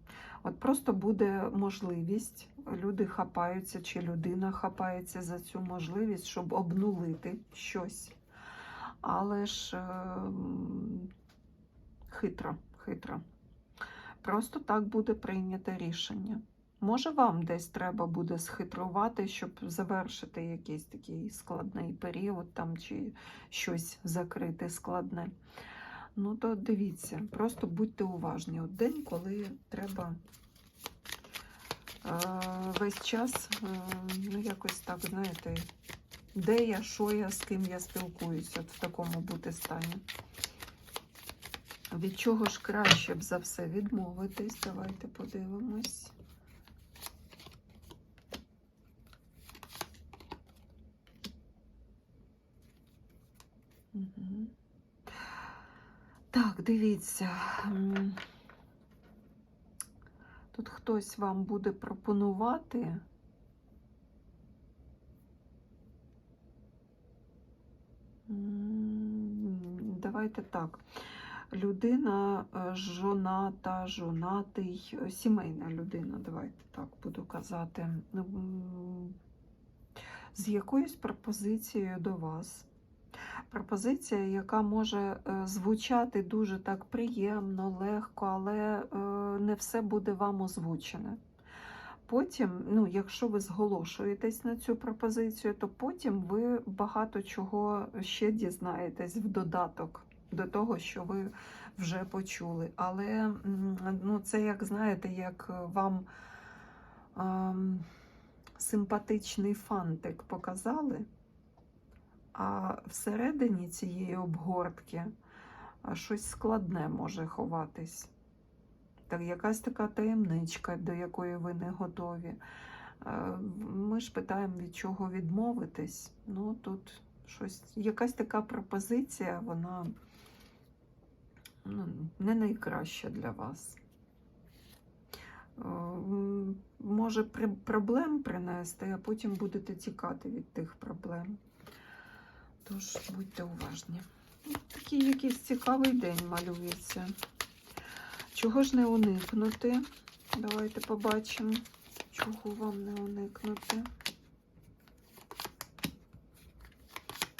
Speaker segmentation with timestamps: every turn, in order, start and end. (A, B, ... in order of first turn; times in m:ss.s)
0:00.4-0:08.2 A
0:09.0-0:11.1 A
0:12.1-0:13.2 A
0:14.2-0:25.3 A
0:26.1-0:30.2 A
0:32.0-0:35.7 A
0:36.3-0:40.0 A
0:41.9-0:46.1 A
0:53.9-0:54.5 A
0:56.3-0:58.2 A
1:00.5-1:03.0 A
1:08.3-1:10.8 A
1:11.5-1:19.2 A
1:20.3-1:22.7 A
1:23.5-1:31.2 A
1:32.0-1:46.1 A
1:47.1-1:47.9 A
1:48.6-1:51.1 A
1:52.3-1:55.1 A
1:55.8-1:58.1 A
1:59.1-2:02.4 A
2:03.0-2:09.9 A
2:11.6-2:13.8 A
2:15.6-2:21.4 A
2:22.6-2:27.2 A
2:28.3-2:33.9 A